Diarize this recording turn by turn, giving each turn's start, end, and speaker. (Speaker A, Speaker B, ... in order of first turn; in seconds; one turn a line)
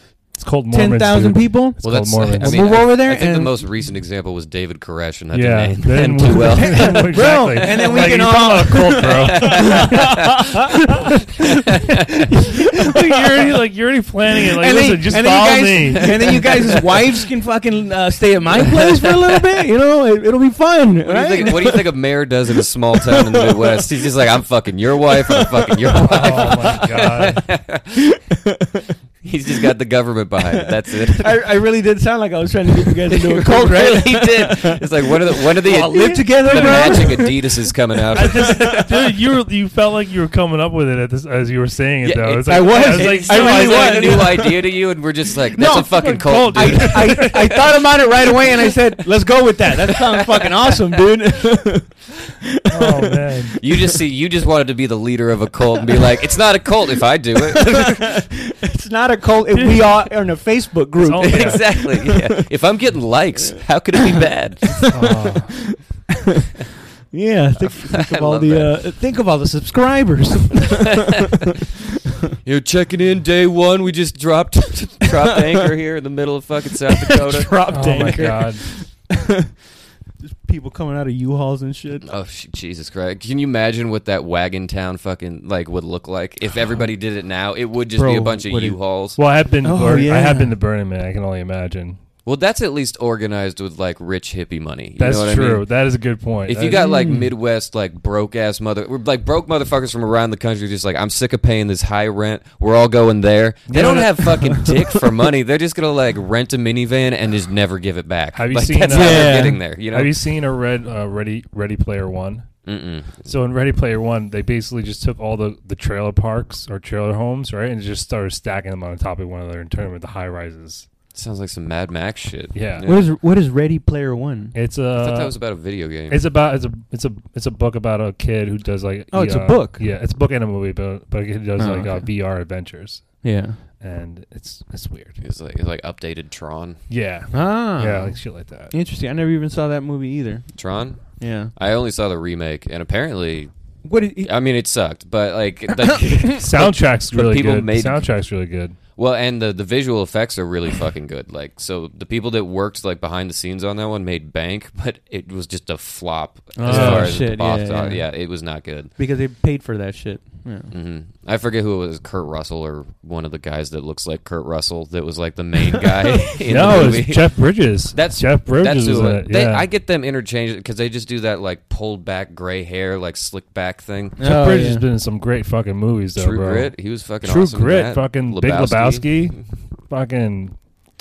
Speaker A: 0.3-2.8
Speaker B: 0.7-3.5
Speaker C: 1.8-7.3
Speaker A: 5.3-10.9
Speaker B: 6.3-10.8
Speaker C: 9.0-10.4
Speaker C: 11.4-12.0
Speaker A: 11.7-16.5
Speaker B: 12.3-13.5
Speaker B: 14.4-21.9
Speaker C: 16.0-16.7
Speaker C: 21.1-28.0
Speaker B: 22.9-23.8
Speaker B: 25.3-26.9
Speaker A: 26.0-27.4
Speaker B: 27.9-28.9
Speaker C: 29.2-31.4
Speaker B: 30.5-38.9
Speaker C: 33.1-39.0
Speaker A: 36.5-37.2
Speaker A: 38.1-44.4
Speaker C: 42.0-47.7
Speaker B: 42.5-44.7
Speaker B: 45.5-53.7
Speaker A: 45.8-47.7
Speaker C: 49.9-51.0
Speaker A: 52.7-53.6
Speaker C: 53.6-58.2
Speaker B: 57.5-62.4
Speaker A: 61.0-61.7
Speaker C: 61.2-65.0
Speaker B: 64.2-66.5
Speaker A: 64.9-65.7
Speaker B: 67.1-71.4
Speaker C: 67.6-68.8
Speaker C: 72.4-77.8
Speaker B: 77.1-79.5
Speaker A: 77.7-78.7
Speaker B: 80.2-82.1
Speaker C: 82.0-89.2
Speaker B: 87.9-88.8
Speaker A: 89.2-92.0
Speaker B: 89.6-90.5
Speaker C: 92.2-95.7
Speaker A: 95.0-96.8
Speaker C: 96.5-110.1
Speaker B: 96.6-97.3
Speaker A: 103.7-104.4
Speaker A: 108.3-112.5
Speaker B: 108.8-109.6
Speaker C: 112.7-113.3
Speaker A: 113.2-120.9
Speaker C: 121.1-123.0
Speaker A: 122.5-122.9
Speaker B: 122.8-124.5
Speaker A: 124.5-125.4
Speaker C: 125.0-126.2
Speaker A: 126.1-133.2
Speaker B: 129.1-129.8
Speaker B: 131.6-132.1
Speaker B: 133.2-133.6
Speaker A: 133.8-135.2
Speaker C: 135.2-136.8
Speaker A: 136.9-138.7
Speaker B: 137.3-140.5
Speaker C: 140.6-143.5
Speaker B: 141.1-141.5
Speaker B: 143.8-144.3
Speaker C: 144.2-148.1
Speaker B: 145.8-146.1
Speaker A: 146.4-148.8
Speaker C: 148.9-158.9
Speaker B: 156.6-158.1
Speaker A: 156.7-157.2
Speaker B: 159.0-160.7
Speaker C: 160.7-174.2
Speaker A: 166.4-169.7
Speaker B: 174.2-174.8
Speaker A: 174.2-180.6
Speaker C: 176.2-179.4